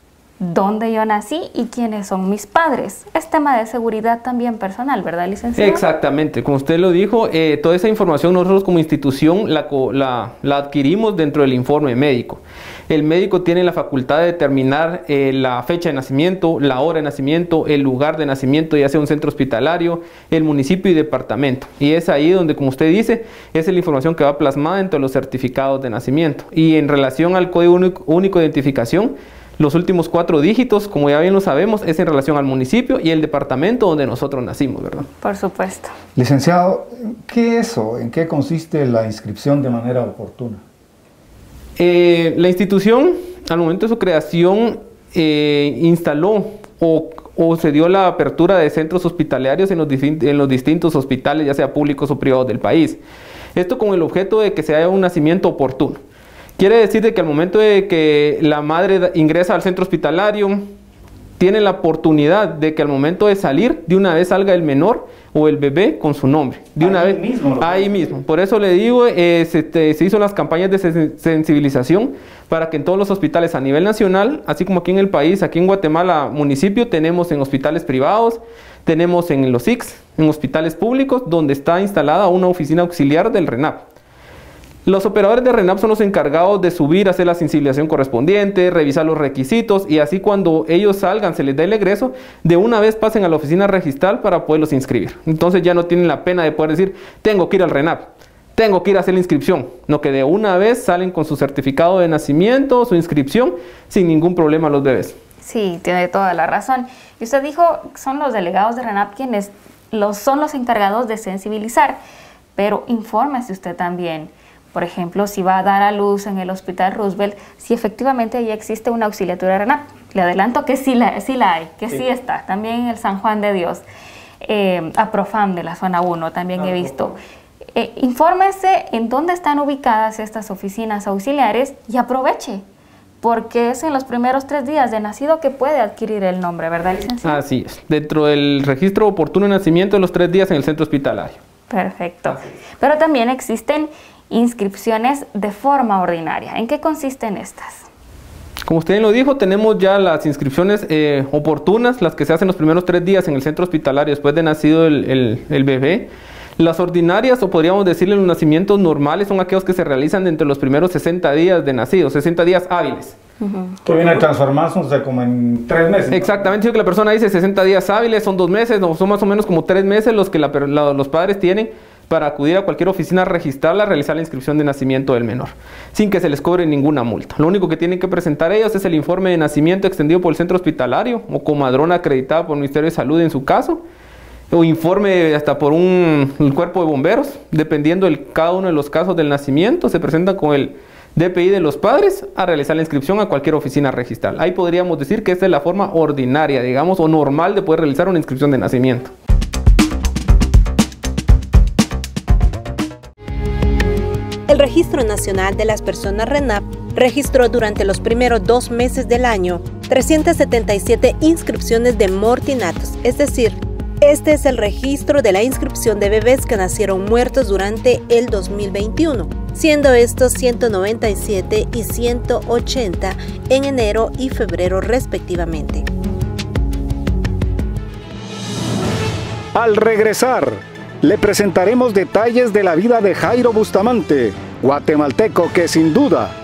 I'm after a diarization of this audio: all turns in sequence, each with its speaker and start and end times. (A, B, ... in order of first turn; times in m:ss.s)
0:00.4-0:05.8 A
0:05.6-0:35.1 B
0:35.2-0:35.9 A
0:36.2-0:40.6 C
0:41.8-0:53.0 B
0:53.6-0:56.0 B
0:56.6-1:00.7 B
1:01.4-1:23.8 B
1:06.8-1:08.2 C
1:24.9-1:45.2 B
1:45.4-1:52.0 A
1:52.6-2:03.8 A
2:04.4-2:07.2 A
2:07.8-2:12.6 A
2:13.2-2:17.4 A
2:17.2-2:21.4 B
2:21.7-2:27.9 A
2:22.3-2:22.5 B
2:28.6-2:43.2 B
2:43.4-2:43.8 A
2:43.8-2:46.5 C
2:46.1-3:03.8 B
3:04.5-3:19.1 B
3:24.5-3:45.9 D
3:49.6-3:50.5 C
3:51.1-3:56.2 C